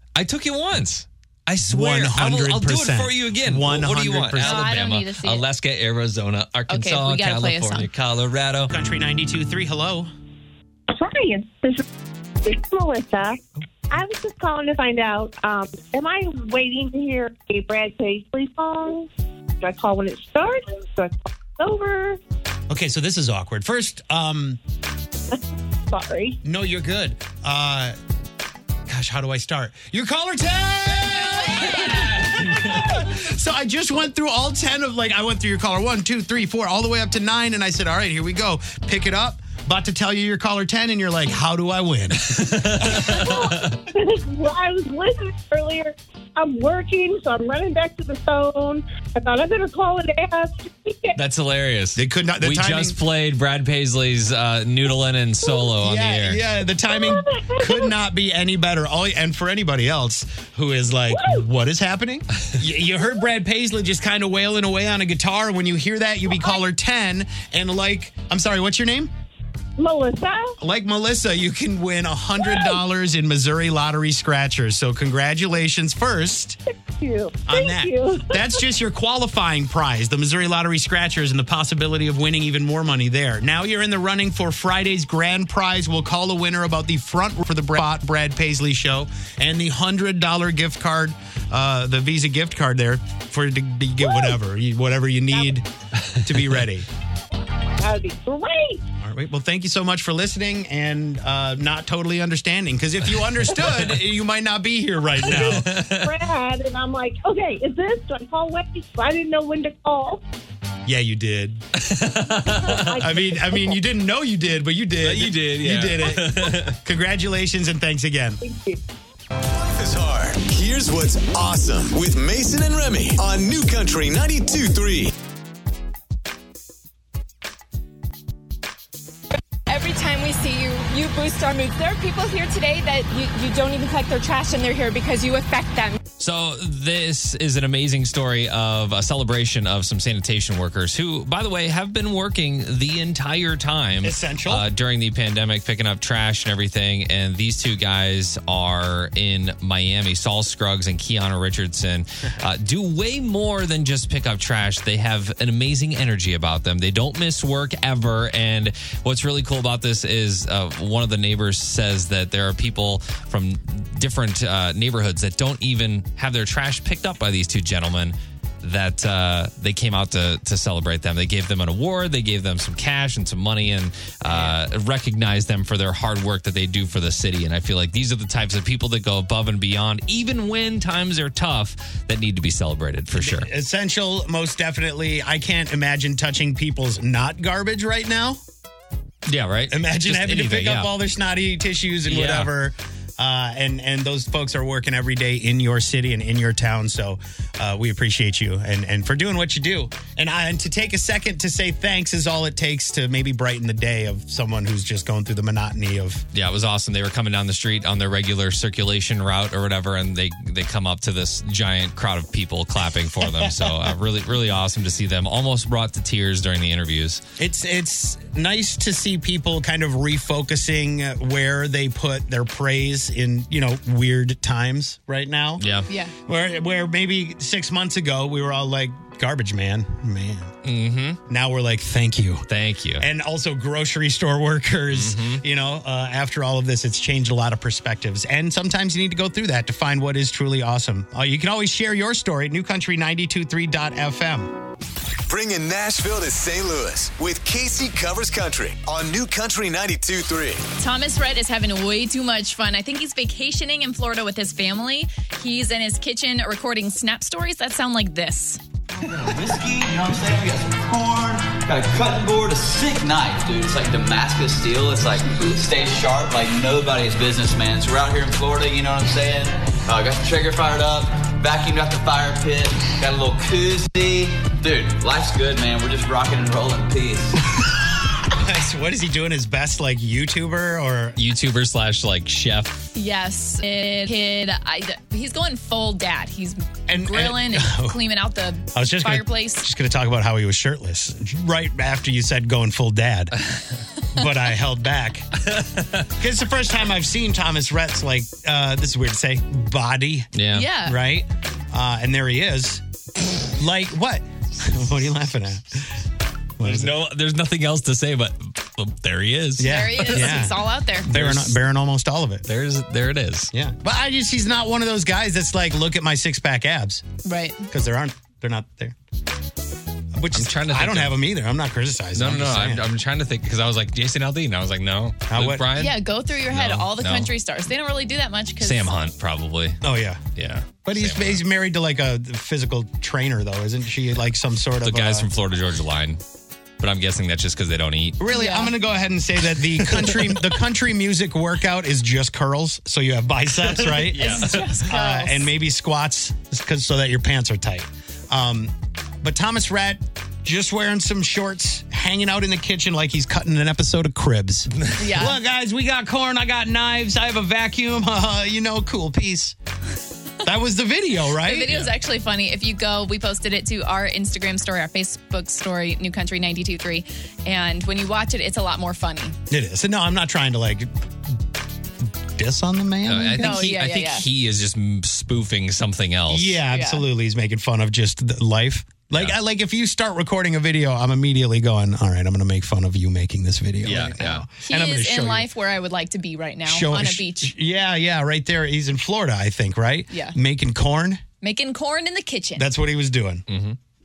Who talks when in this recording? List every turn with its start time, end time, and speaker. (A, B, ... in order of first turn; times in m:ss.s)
0:00.2-0:08.7 A
0:01.6-0:04.8 B
0:04.4-0:05.4 C
0:06.7-0:07.9 C
0:08.7-0:10.1 B
0:10.9-0:11.9 D
0:12.4-0:19.1 D
0:19.6-0:22.2 D
0:22.7-0:24.6 B
0:25.3-0:26.4 D
0:26.4-0:28.0 B
0:28.9-0:43.4 B
0:31.8-0:32.8 A
0:42.2-0:43.8 A
0:42.9-0:51.2 D
0:51.2-0:56.4 A
0:52.0-0:53.0 B
0:55.8-1:09.1 B
0:56.9-0:57.9 D
1:01.1-1:01.4 D
1:09.8-1:10.6 D
1:10.6-1:16.6 B
1:12.5-1:12.8 D
1:17.0-1:18.6 D
1:17.5-1:36.9 B
1:36.1-1:36.3 A
1:37.8-1:38.8 D
1:39.0-1:45.8 B
1:45.2-1:50.2 D
1:45.2-1:46.2 A
1:50.9-1:51.7 B
1:51.8-1:53.1 A
1:52.6-1:53.8 D
1:52.9-1:58.4 B
1:55.0-1:56.8 A
1:58.4-1:58.8 D
1:59.4-2:05.1 E
2:09.7-2:16.0 F
2:16.2-3:03.5 A
2:24.0-2:24.7 B
2:54.2-2:54.6 B
3:03.2-3:08.4 B
3:09.3-3:10.9 A
3:09.7-3:26.2 B
3:12.1-3:12.5 A
3:26.3-3:37.2 A
3:33.2-3:34.0 B
3:37.4-3:45.7 B
3:45.6-3:45.9 A
3:45.9-3:46.1 C
3:46.2-3:50.5 B
3:50.6-3:51.2 A
3:51.3-3:52.5 B
3:52.5-3:53.1 A
3:53.0-4:04.6 B
3:54.9-3:55.4 A
4:05.3-4:10.6 E
4:10.8-4:18.6 C
4:19.0-4:37.4 G
4:38.3-4:41.2 B
4:41.2-4:42.9 A
4:43.0-4:49.7 C
4:46.9-4:48.0 B
4:48.7-4:53.4 B
4:54.1-4:55.4 B
4:55.5-4:56.0 A
4:56.1-5:06.0 B
5:00.4-5:00.7 A
5:00.5-5:01.0 C
5:06.6-5:07.0 B
5:06.6-5:10.5 A
5:09.6-5:12.5 B
5:09.6-5:11.1 C
5:11.1-5:11.6 A
5:12.5-5:13.5 A
5:13.5-5:17.0 B
5:17.2-5:17.7 C
5:17.7-5:19.0 B
5:20.1-5:22.9 B
5:20.3-5:21.2 A
5:22.2-5:27.3 A
5:25.3-5:25.7 B
5:25.8-5:28.9 C
5:28.6-5:29.8 A
5:29.8-5:30.2 B
5:30.4-5:31.4 A
5:30.8-5:35.3 B
5:34.8-5:36.2 A
5:36.8-5:38.2 A
5:38.2-5:59.6 B
5:38.3-5:38.7 C
5:39.8-5:40.4 A
5:43.8-5:44.8 A
5:44.2-5:45.5 C
5:55.0-5:55.4 C
6:00.4-6:01.8 B
6:01.4-6:09.4 C
6:09.5-6:11.4 B
6:12.0-6:13.7 B
6:13.1-6:16.6 A
6:13.4-6:14.3 C
6:16.3-6:25.5 B
6:16.7-6:17.0 C
6:19.1-6:19.4 A
6:23.8-6:24.4 A
6:24.7-6:27.5 C
6:26.7-6:31.2 B
6:30.1-6:30.4 C
6:31.4-6:32.7 C
6:32.6-6:33.5 B
6:33.5-6:33.8 A